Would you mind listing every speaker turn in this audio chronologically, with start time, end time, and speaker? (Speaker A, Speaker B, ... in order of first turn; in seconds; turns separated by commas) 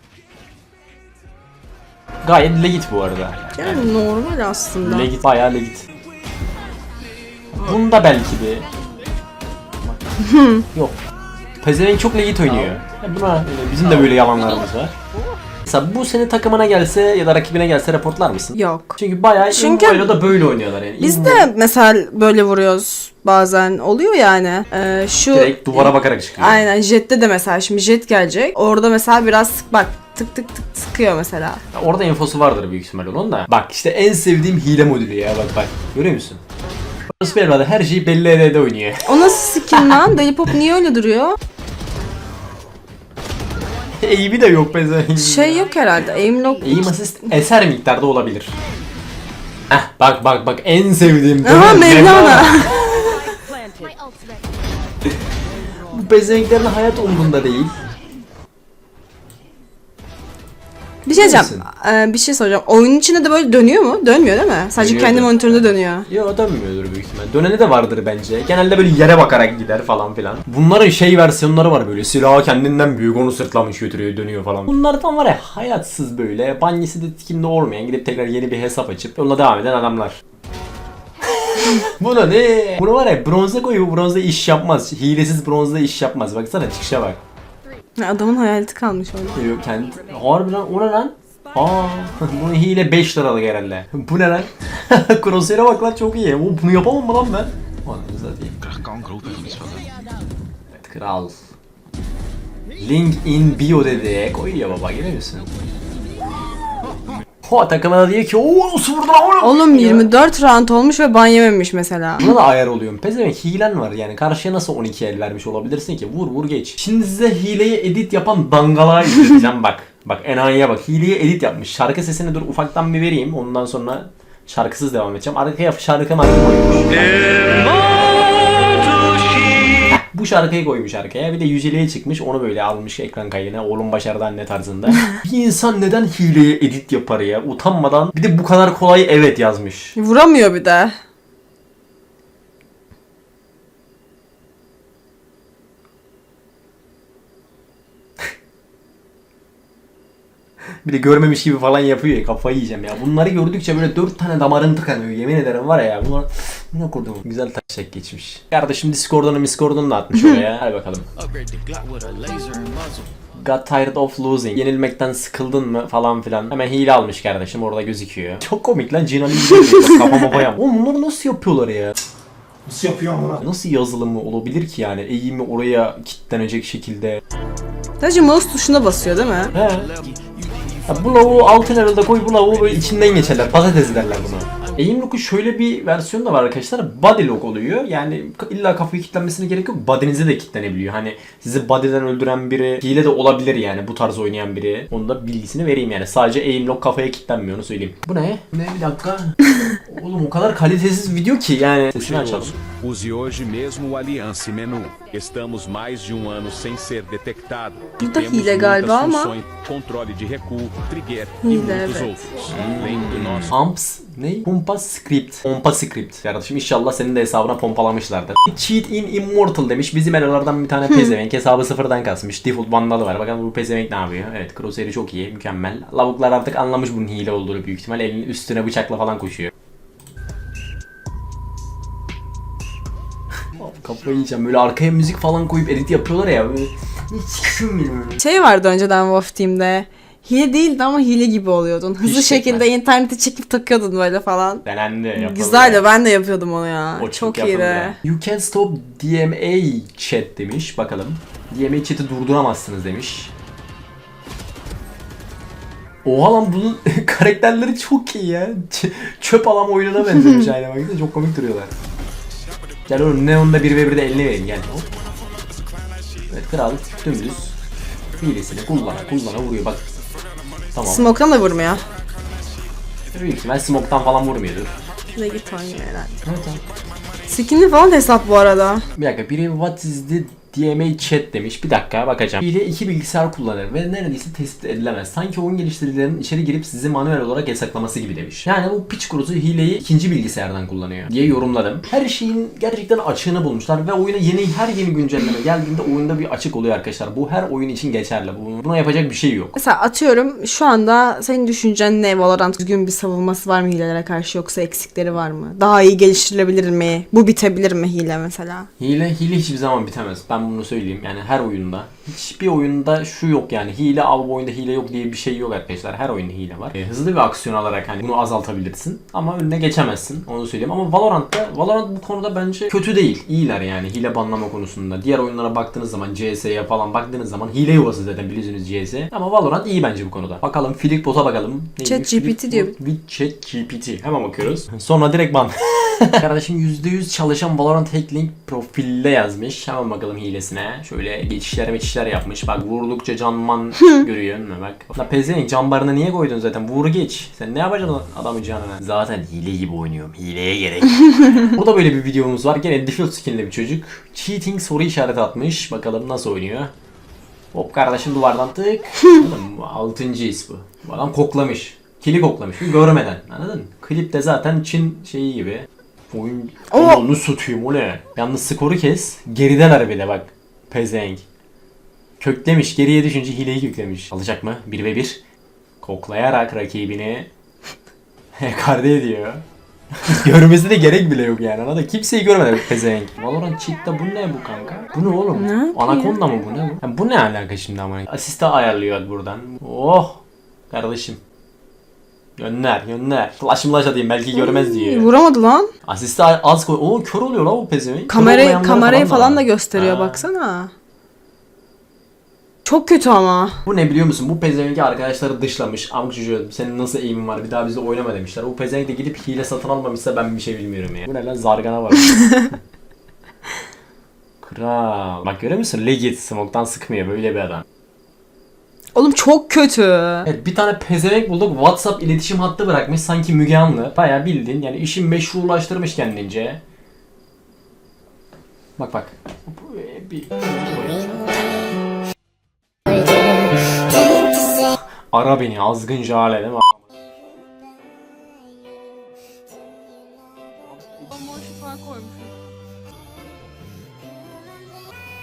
Speaker A: 2.2-3.9, Speaker B: 3.6-5.1, Speaker A: 4.8-5.9, Speaker A: 7.6-8.7, Speaker B: 10.2-10.6, Speaker A: 11.6-14.9, Speaker A: 15.7-21.5, Speaker B: 18.5-20.2, Speaker B: 21.0-31.6, Speaker A: 25.3-26.7, Speaker A: 31.7-36.4, Speaker A: 37.1-40.0, Speaker B: 39.0-41.4, Speaker A: 44.0-45.6, Speaker B: 45.1-46.9, Speaker A: 46.6-48.5, Speaker A: 49.7-52.9, Speaker B: 51.4-52.7, Speaker A: 55.9-57.8, Speaker B: 61.0-66.1, Speaker A: 61.1-61.7, Speaker A: 64.8-80.2, Speaker A: 81.5-87.2, Speaker B: 88.0-89.4, Speaker A: 89.3-98.5, Speaker C: 99.0-99.8, Speaker A: 100.8-101.3, Speaker A: 102.8-105.5, Speaker A: 107.5-110.1, Speaker B: 109.4-112.3, Speaker A: 112.2-127.7, Speaker A: 129.9-139.9, Speaker B: 139.9-140.9, Speaker A: 150.8-161.0, Speaker C: 161.4-162.9, Speaker A: 163.4-171.9, Speaker A: 172.8-177.2, Speaker B: 178.0-179.5, Speaker A: 179.5-179.9, Speaker C: 180.0-184.0, Speaker A: 180.9-202.6, Speaker C: 202.0-213.5, Speaker B: 208.0-209.3, Speaker B: 211.4-212.3, Speaker A: 212.5-229.5, Speaker A: 233.6-238.2, Speaker B: 238.2-244.6, Speaker A: 242.0-242.6, Speaker A: 244.6-245.8, Speaker B: 245.2-248.0, Speaker A: 247.0-253.3, Speaker A: 256.0-261.7, Speaker A: 262.9-264.9, Speaker A: 266.3-267.5, Speaker A: 268.2-269.8, Speaker A: 270.7-271.1, Speaker B: 270.8-271.8, Speaker A: 273.1-274.7, Speaker B: 275.1-276.1, Speaker A: 276.2-276.6, Speaker B: 277.3-278.9, Speaker A: 278.9-299.6, Speaker B: 299.6-308.7, Speaker A: 308.8-356.7, Speaker B: 331.8-332.7, Speaker A: 357.5-371.2, Speaker B: 366.7-367.0, Speaker A: 372.2-375.2, Speaker A: 375.8-377.3, Speaker A: 378.4-379.4, Speaker A: 380.0-391.2, Speaker B: 385.3-386.2, Speaker A: 392.4-395.1, Speaker B: 394.3-395.7, Speaker A: 395.8-400.2, Speaker B: 398.1-400.7, Speaker B: 402.6-403.6, Speaker A: 403.6-412.6, Speaker A: 414.4-417.6, Speaker B: 418.9-420.3, Speaker A: 420.2-426.6, Speaker A: 428.8-431.3, Speaker A: 435.1-436.7, Speaker B: 441.1-442.3